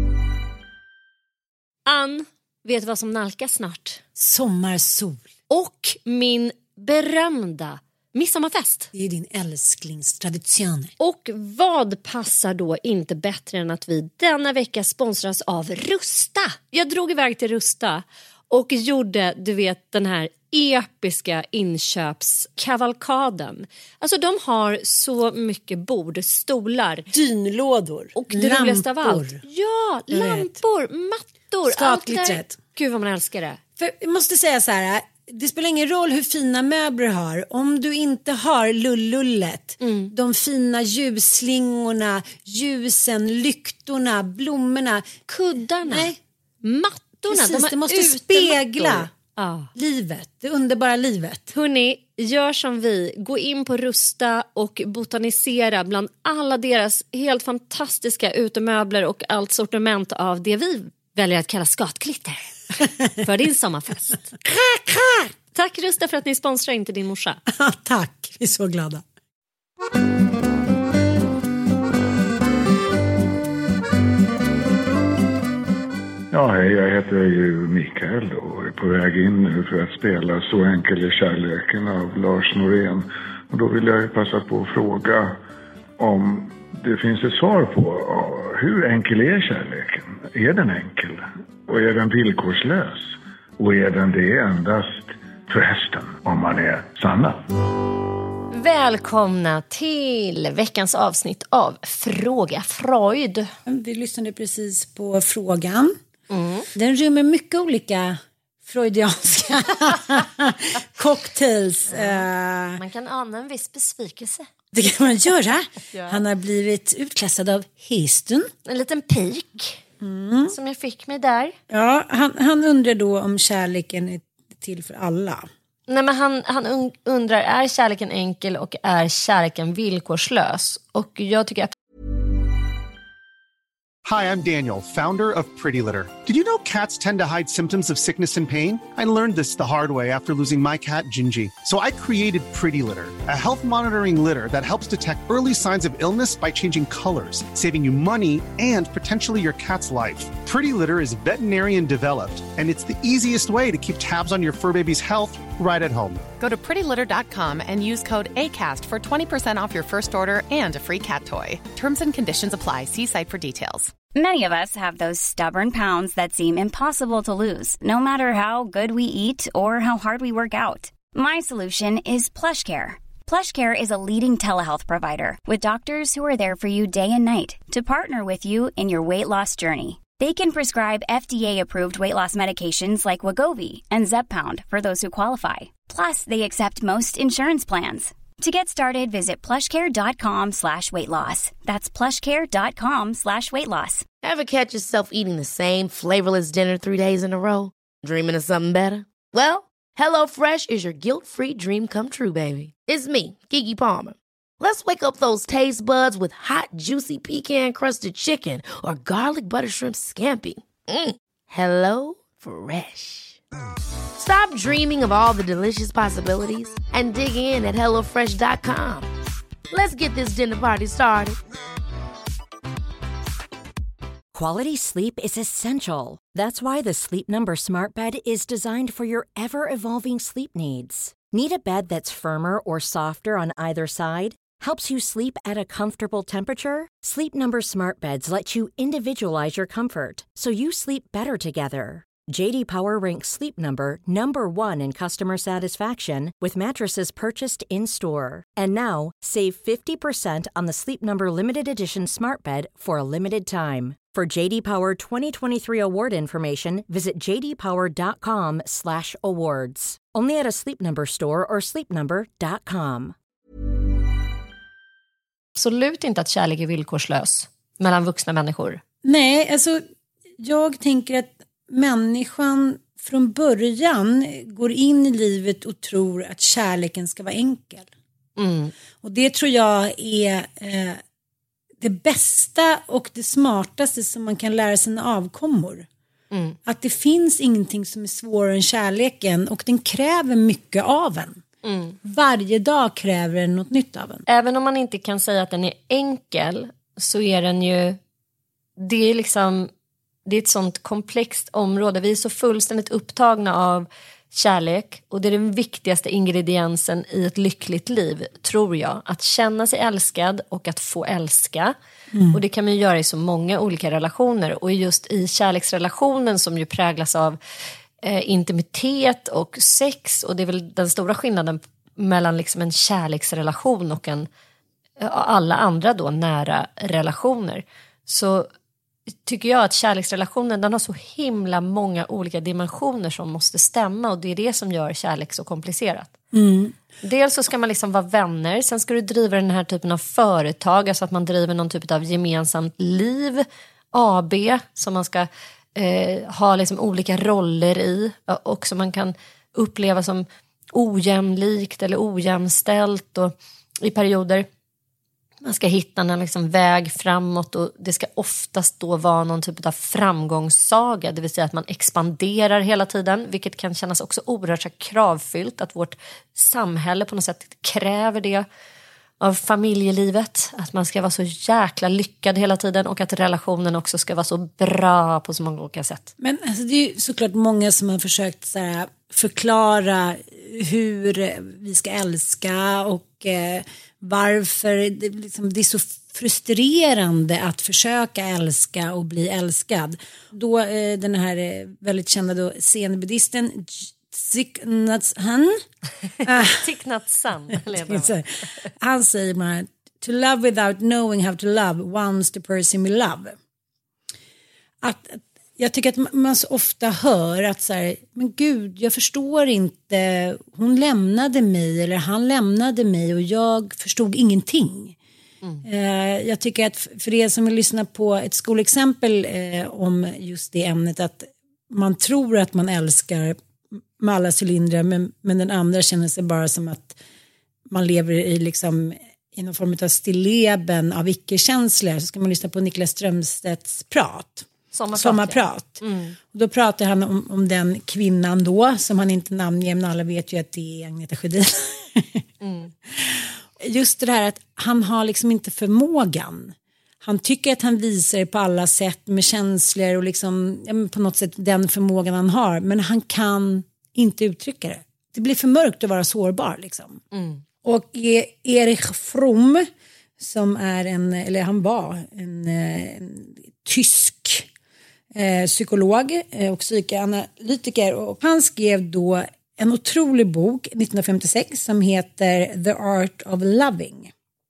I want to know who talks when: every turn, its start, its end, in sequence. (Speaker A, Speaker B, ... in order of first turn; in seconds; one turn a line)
Speaker A: 1.9-4.0
Speaker B: 4.2-5.2
Speaker A: 5.5-8.9
Speaker B: 8.9-10.9
Speaker A: 11.0-27.1
Speaker B: 27.1-29.4
Speaker A: 28.1-33.6
Speaker B: 30.1-30.5
Speaker B: 31.7-32.5
Speaker B: 33.8-45.3
Speaker A: 39.8-40.1
Speaker A: 45.3-46.1
Speaker B: 45.8-46.2
Speaker A: 46.6-49.7
Speaker B: 47.3-49.1
Speaker B: 49.8-51.5
Speaker A: 51.5-64.4
Speaker B: 64.4-65.3
Speaker A: 65.5-67.4
Speaker B: 67.5-69.0
Speaker C: 76.3-85.4
Speaker C: 86.0-97.5
Speaker A: 98.5-103.5
Speaker B: 103.7-106.0
Speaker A: 106.3-106.7
Speaker B: 106.8-112.8
Speaker A: 111.9-112.3
Speaker A: 112.8-114.5
Speaker B: 114.7-118.5
Speaker A: 115.9-116.2
Speaker A: 118.7-119.8
Speaker B: 120.0-120.5
Speaker A: 120.5-121.5
Speaker B: 121.7-125.5
Speaker A: 125.9-131.7
Speaker D: 134.1-156.3
Speaker E: 156.3-163.9
Speaker F: 164.2-194.1
Speaker G: 194.2-213.4
Speaker G: 214.2-219.1
Speaker G: 219.7-221.4
Speaker H: 224.3-263.1
Speaker A: 265.6-268.8
Speaker B: 269.0-269.8
Speaker B: 270.4-277.9
Speaker A: 278.4-278.7
Speaker B: 279.0-281.0
Speaker B: 281.8-285.9
Speaker A: 286.3-286.6
Speaker B: 286.7-291.4
Speaker A: 291.6-292.0
Speaker B: 292.1-294.2
Speaker A: 294.3-298.0
Speaker A: 298.8-299.7
Speaker A: 300.3-311.8
Speaker B: 312.1-312.4
Speaker A: 312.3-317.4
Speaker A: 318.0-324.3
Speaker A: 325.0-328.5
Speaker A: 329.2-336.1
Speaker B: 336.3-336.8
Speaker A: 337.0-354.5
Speaker A: 355.4-368.4
Speaker A: 369.2-376.1
Speaker B: 376.2-395.6
Speaker B: 396.2-396.6
Speaker A: 396.3-398.2
Speaker B: 397.8-398.2
Speaker B: 398.8-403.4
Speaker B: 404.8-415.0
Speaker B: 415.6-423.4
Speaker B: 424.0-427.0
Speaker B: 427.7-442.2
Speaker A: 434.7-436.2
Speaker A: 442.4-442.7
Speaker B: 442.9-457.0
Speaker A: 457.1-457.4
Speaker B: 457.6-459.7
Speaker B: 460.2-464.5
Speaker B: 465.1-474.1